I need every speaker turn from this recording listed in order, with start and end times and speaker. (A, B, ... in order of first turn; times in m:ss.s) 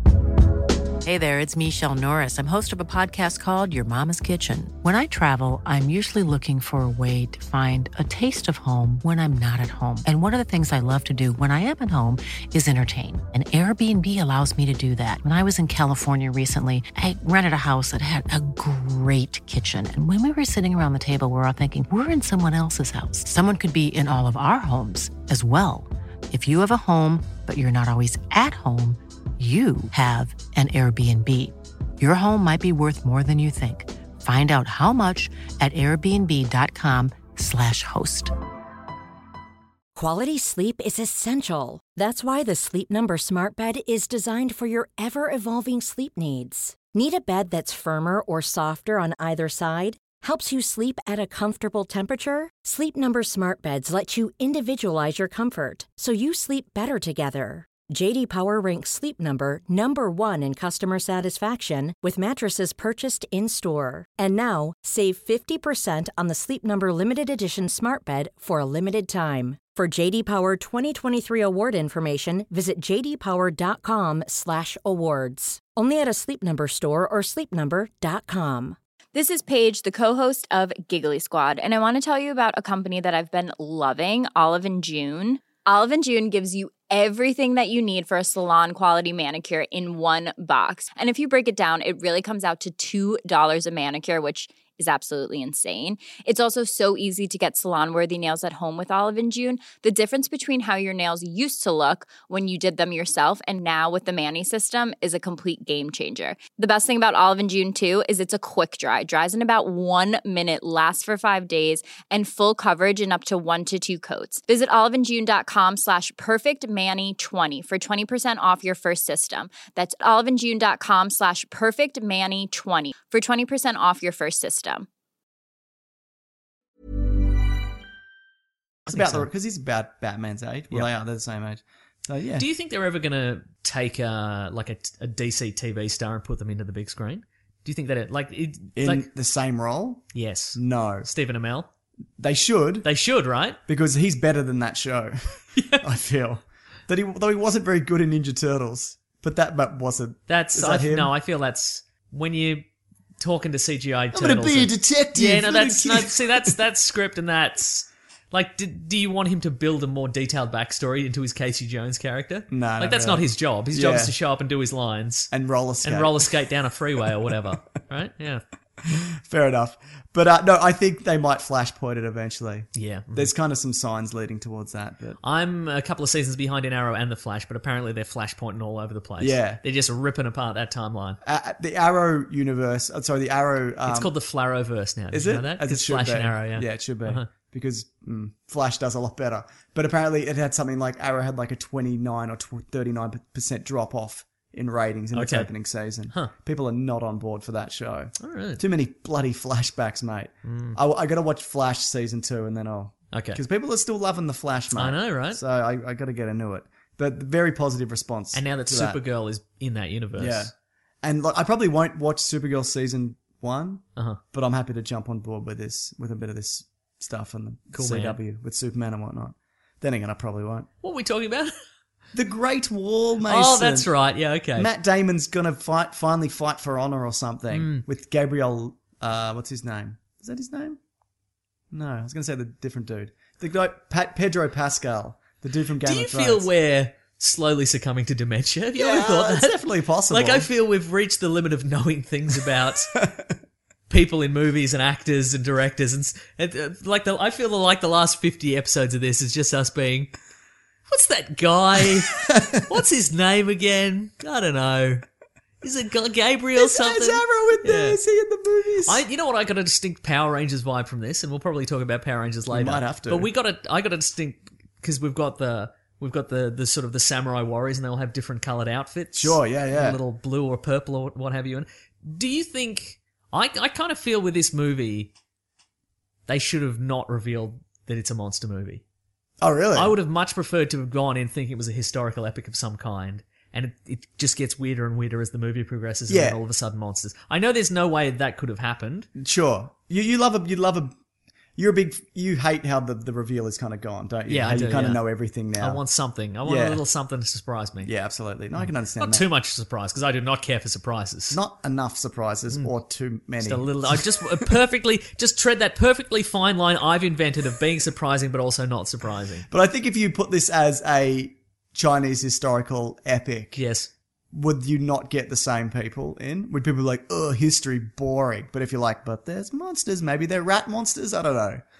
0:01.0-0:38.3 A
0:40.0-1:18.8 B
1:19.1-2:04.9 C
2:08.9-2:09.3 D
2:08.9-2:12.5 E
2:12.4-2:19.1 D
2:18.8-2:21.1 E
2:20.1-2:21.7 D
2:22.2-2:22.9 E
2:22.8-2:23.6 D
2:23.7-2:31.1 E
2:25.6-2:25.8 D
2:30.3-2:32.7 D
2:33.2-2:45.3 D
2:34.1-2:36.6 E
2:42.5-2:44.2 E
2:45.3-2:46.3 E
2:45.8-2:48.4 D
2:48.8-2:55.2 E
2:52.8-2:53.3 D
2:55.2-3:01.2 D
2:59.2-2:59.6 E
3:01.2-3:04.1 E
3:03.9-3:07.3 D
3:05.1-3:29.0 E
3:15.1-3:15.5 D
3:18.2-3:18.6 D
3:20.4-3:20.8 D
3:23.1-3:23.4 D
3:24.7-3:25.4 D
3:28.3-3:30.5 D
3:30.2-3:30.5 E
3:31.0-3:40.7 E
3:37.7-3:38.2 D
3:40.8-3:41.5 D
3:42.1-3:43.9 E
3:43.3-3:44.7 D
3:44.6-3:50.8 E
3:47.5-3:47.8 D
3:51.7-3:56.5 E
3:55.8-4:03.0 D
3:58.8-4:00.5 E
4:03.0-4:03.3 E
4:03.9-4:10.1 D
4:10.9-4:15.0 D
4:11.9-4:12.6 E
4:15.6-4:18.0 D
4:16.6-4:19.0 E
4:18.8-4:35.1 D
4:22.5-4:23.3 E
4:29.1-4:30.0 E
4:36.3-4:38.8 D
4:39.4-4:40.0 E
4:39.8-4:49.1 D
4:46.1-4:46.4 E
4:49.2-4:50.9 E
4:51.6-4:55.8 E
4:54.3-4:55.0 D
4:55.6-4:57.9 D
4:56.4-4:56.8 E
4:57.8-4:59.3 E
4:58.6-5:01.4 D
5:01.3-5:04.5 E
5:03.4-5:09.5 D
5:09.5-5:13.6 E
5:13.6-5:13.9 D
5:14.3-5:21.6 E